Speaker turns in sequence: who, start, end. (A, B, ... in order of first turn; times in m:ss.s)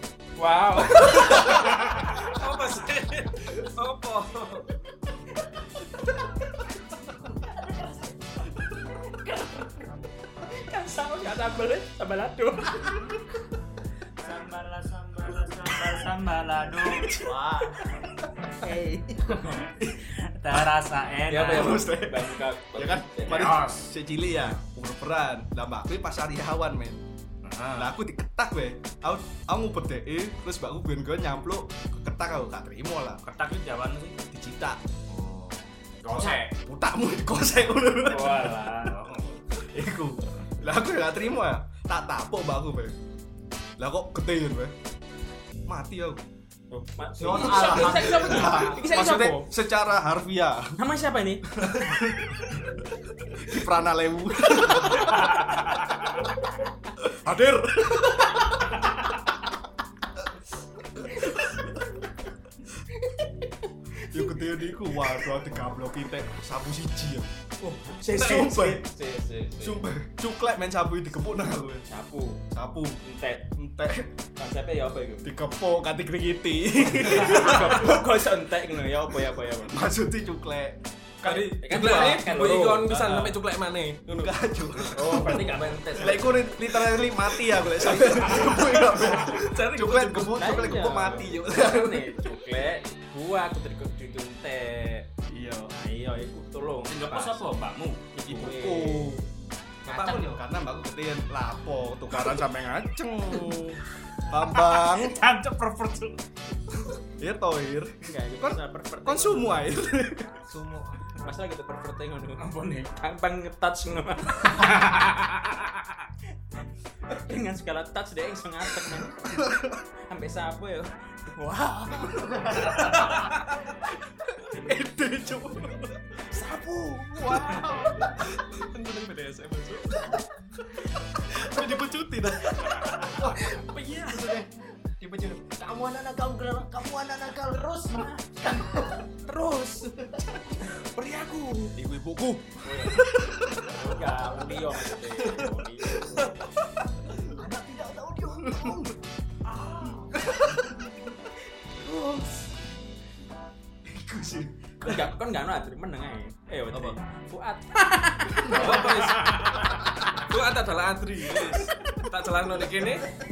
0:00.4-0:01.8 A
0:01.1-0:04.7 B
0:01.2-0:01.6 C
0:09.0-0:09.8 A
0:10.5-0:13.0 A
0:14.2-0:17.2 D
0:16.9-0:17.7 C
0:17.2-0:17.7 E
0:18.6-0:19.4 A
0:18.6-0:19.6 E
0:19.6-0:21.8 D
0:21.3-0:23.5 A
0:21.4-0:27.0 C
0:23.3-0:23.9 D
0:27.4-0:27.9 D
0:27.7-0:33.2 C
0:33.2-0:34.2 D
0:34.3-0:34.8 C
0:35.1-0:36.5 D
0:36.1-0:38.7 C
0:38.1-0:38.9 A
0:38.1-0:39.4 D
0:39.5-0:43.0 C
0:43.8-0:44.7 C
0:45.7-0:46.2 C
0:46.7-0:49.5 A
0:47.2-0:48.8 E
0:47.2-0:50.8 C
0:50.8-0:51.5 A
0:51.5-0:52.5 C
0:53.3-0:55.4 C
0:55.2-0:55.8 D
0:57.0-0:58.8 C
1:01.0-1:01.7 C
1:04.0-1:07.3 C
1:07.6-1:09.8 A
1:08.0-1:08.8 C
1:09.6-1:11.8 C
1:11.8-1:12.4 A
1:12.5-1:13.0 C
1:13.0-1:13.5 A
1:13.5-1:14.1 C
1:14.4-1:15.3 A
1:15.2-1:18.0 C
1:17.0-1:19.8 A
1:19.6-1:22.2 C
1:21.2-1:24.3 B
1:21.4-1:23.4 A
1:24.2-1:32.3 C
1:24.9-1:26.7 A
1:27.8-1:28.5 A
1:28.9-1:30.6 B
1:30.3-1:35.1 A
1:35.3-1:35.7 C
1:35.7-1:37.4 A
1:36.9-1:38.0 D
1:38.1-1:39.2 A
1:38.2-1:39.2 C
1:39.8-1:45.2 C
1:39.8-1:40.4 E
1:44.5-1:46.2 D
1:47.2-1:50.4 C
1:48.0-1:49.7 A
1:50.5-1:51.0 E
1:51.2-1:54.7 A
1:52.4-1:52.9 D
1:54.4-1:55.6 D
1:57.1-1:59.5 A
1:59.2-1:59.8 C
2:00.1-2:02.9 A
2:04.4-2:06.2 C
2:06.3-2:08.2 A
2:07.2-2:07.8 C
2:08.2-2:10.2 B
2:11.1-2:13.6 C
2:12.7-2:14.4 A
2:13.2-2:19.1 E
2:17.6-2:18.3 A
2:19.2-2:20.0 A
2:20.0-2:20.3 E
2:20.6-2:21.7 A
2:21.7-2:24.3 C
2:22.6-2:23.0 A
2:23.6-2:26.4 A
2:27.2-2:28.9 E
2:28.3-2:28.9 C
2:29.5-2:30.1 D
2:30.0-2:31.0 C
2:33.8-2:35.1 C
2:34.8-2:39.4 A
2:38.5-2:43.1 B
2:39.1-2:39.7 D